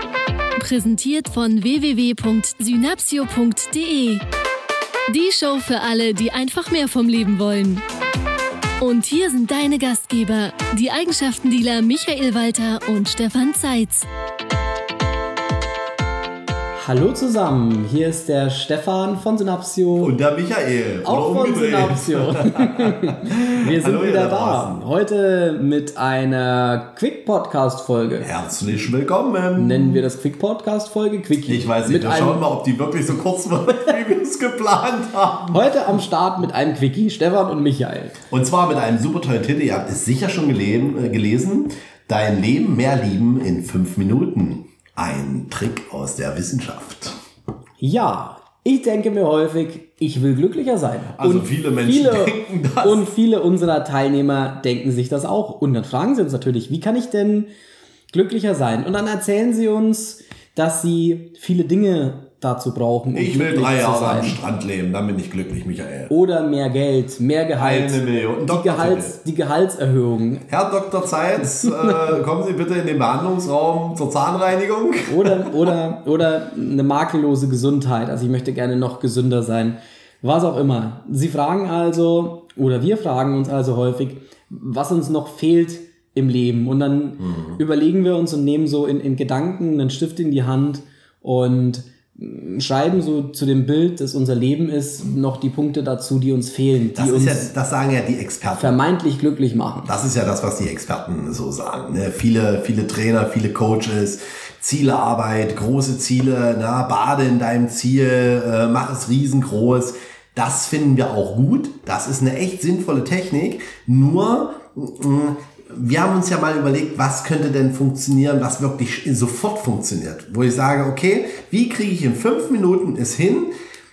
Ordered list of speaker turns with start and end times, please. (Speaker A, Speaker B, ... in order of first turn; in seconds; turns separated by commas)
Speaker A: 0.6-4.2, Speaker A: 5.1-7.8, Speaker A: 8.8-14.1, Speaker B: 16.8-20.2, Speaker C: 20.0-24.8, Speaker B: 21.0-28.3, Speaker C: 28.2-30.1, Speaker B: 29.6-32.5, Speaker C: 31.4-35.6, Speaker B: 35.5-38.2, Speaker C: 38.3-47.2, Speaker B: 47.8-57.5, Speaker C: 51.1-53.1, Speaker B: 58.1-64.4, Speaker C: 63.1-66.1, Speaker B: 66.1-70.5, Speaker C: 67.6-69.2, Speaker C: 70.5-75.6, Speaker B: 75.1-97.5, Speaker C: 87.2-87.6, Speaker C: 97.0-98.8, Speaker B: 98.6-99.9, Speaker C: 99.9-123.5